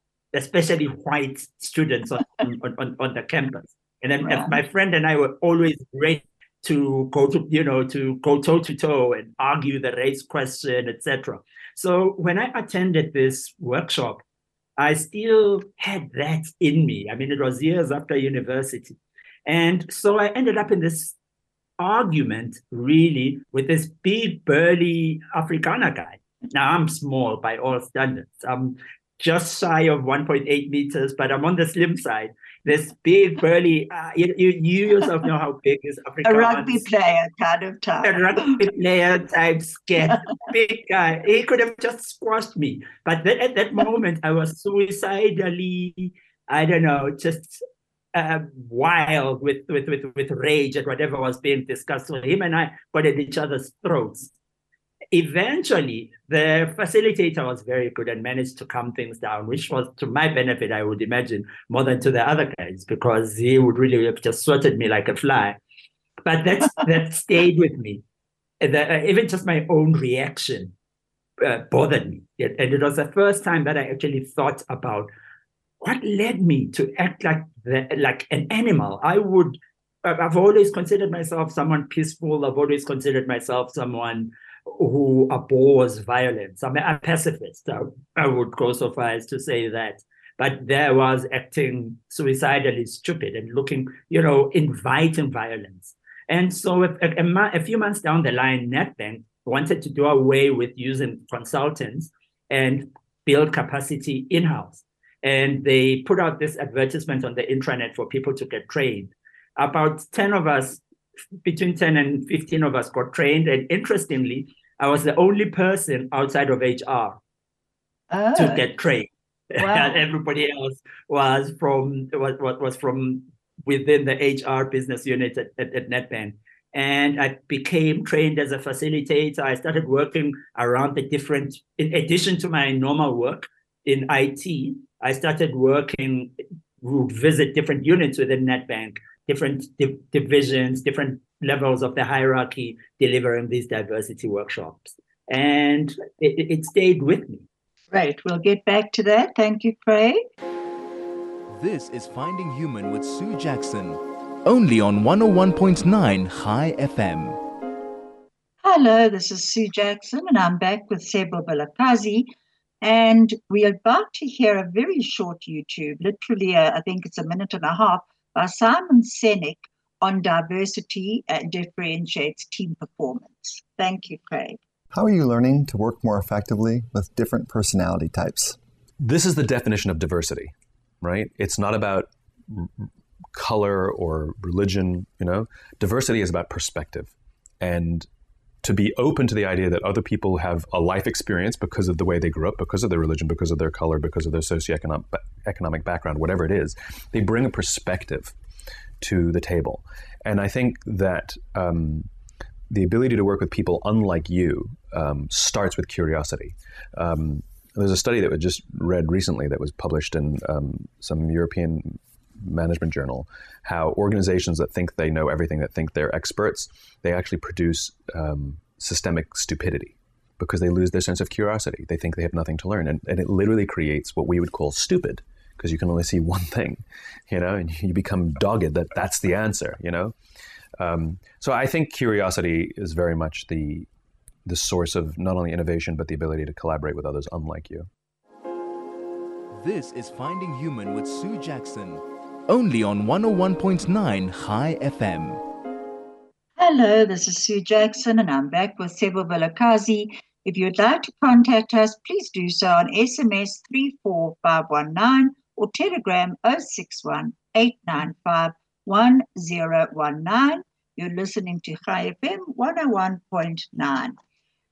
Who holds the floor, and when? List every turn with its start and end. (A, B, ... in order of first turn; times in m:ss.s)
0:00.3-0:14.2 A
0:04.2-0:04.6 B
0:14.8-0:21.1 A
0:21.8-0:36.9 A
0:36.2-0:38.6 B
0:38.0-0:47.6 A
0:48.1-0:54.3 A
0:55.1-1:05.6 A
1:06.2-1:08.0 A
1:08.6-1:10.7 A
1:11.4-1:15.1 A
1:15.8-1:50.8 A
1:51.4-1:57.2 A
1:58.1-1:58.6 B
1:58.3-2:27.4 A
1:59.6-2:00.0 B
2:27.9-2:30.2 B
2:31.5-2:37.4 C
2:38.6-2:54.6 B
2:54.9-2:58.6 D
2:59.0-3:08.1 E
3:08.6-3:18.4 E
3:19.0-3:22.1 E
3:22.7-3:50.1 E
3:50.8-3:53.9 E
3:54.4-3:57.9 E
3:59.5-4:05.4 C
4:06.6-4:24.1 B